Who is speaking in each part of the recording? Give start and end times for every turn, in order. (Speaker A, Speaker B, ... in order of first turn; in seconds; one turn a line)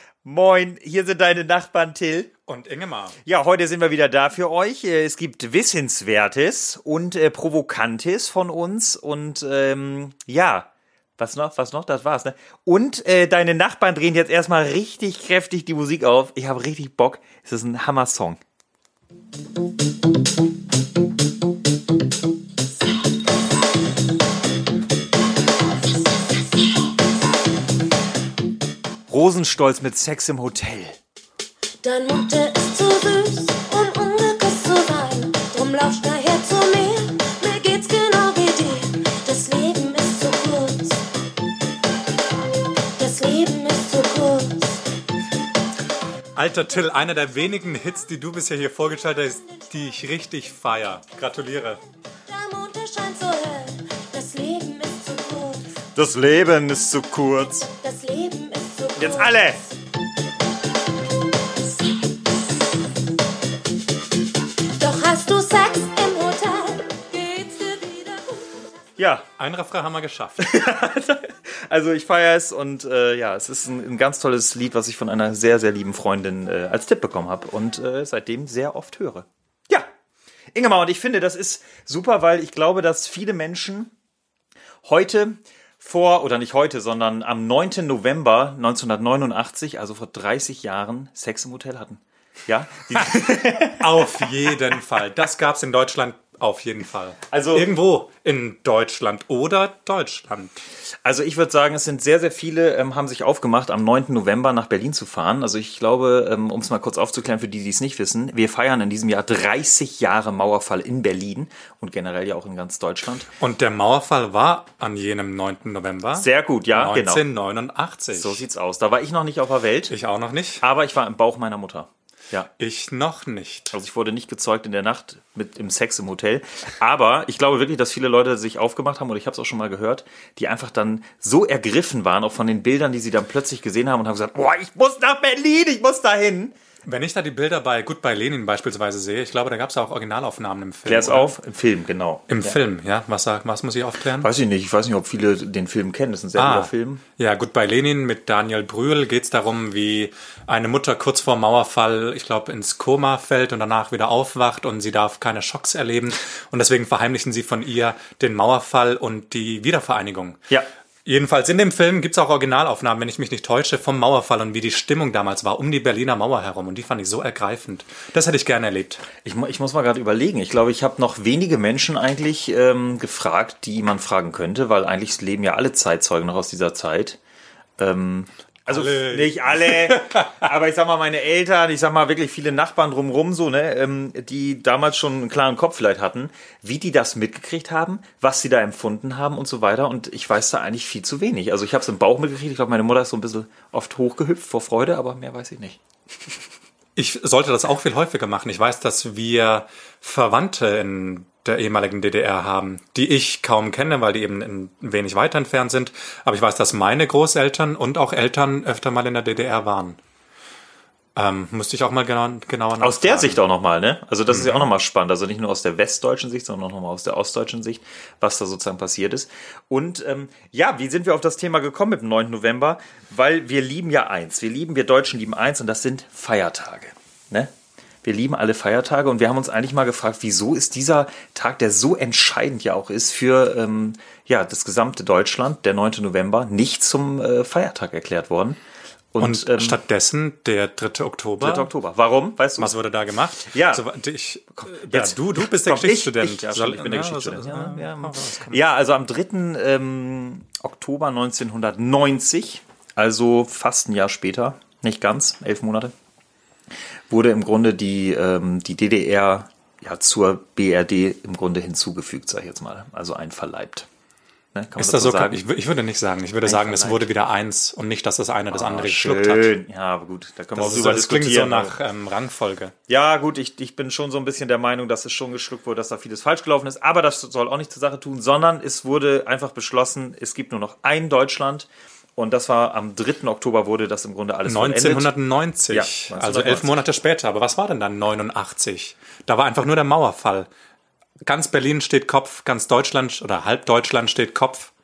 Speaker A: 0.2-2.3
Speaker B: 2.5-3.1
Speaker A: 3.2-18.4
Speaker C: 25.9-26.8
Speaker A: 29.1-31.0
Speaker C: 31.8-41.0
Speaker C: 43.0-44.9
Speaker B: 46.4-51.8
Speaker C: 52.3-55.7
Speaker A: 56.0-57.7
Speaker C: 57.8-59.7
Speaker A: 59.0-59.6
Speaker C: 64.8-68.7
Speaker A: 69.0-69.2
Speaker B: 69.3-70.5
Speaker A: 70.4-79.9
Speaker A: 80.5-83.9
Speaker A: 84.8-94.3
Speaker B: 93.5-100.6
Speaker A: 97.3-97.7
Speaker A: 101.0-113.3
Speaker B: 113.4-118.4
Speaker A: 116.1-117.2
Speaker A: 118.1-119.9
Speaker B: 119.9-120.6
Speaker A: 120.6-122.5
Speaker B: 122.6-123.8
Speaker A: 123.7-136.6
Speaker B: 136.8-141.3
Speaker A: 140.8-142.6
Speaker B: 142.3-144.3
Speaker A: 144.2-147.0
Speaker B: 146.3-160.4
Speaker B: 161.0-169.1
Speaker A: 169.2-177.2
Speaker A: 177.8-195.8
Speaker B: 178.7-180.2
Speaker B: 196.9-210.0
Speaker B: 211.1-213.4
Speaker A: 212.8-227.5
Speaker B: 214.3-214.7
Speaker A: 228.0-238.6
Speaker A: 239.1-239.8
Speaker B: 239.2-241.7
Speaker A: 241.4-242.7
Speaker B: 242.6-248.6
Speaker A: 243.4-243.8
Speaker A: 244.9-255.9
Speaker A: 257.1-263.9
Speaker A: 264.5-265.4
Speaker B: 264.8-269.5
Speaker A: 266.4-267.1
Speaker A: 268.5-271.7
Speaker B: 270.5-272.7
Speaker A: 272.9-285.1
Speaker B: 284.4-290.5
Speaker A: 285.7-286.8
Speaker B: 291.2-294.7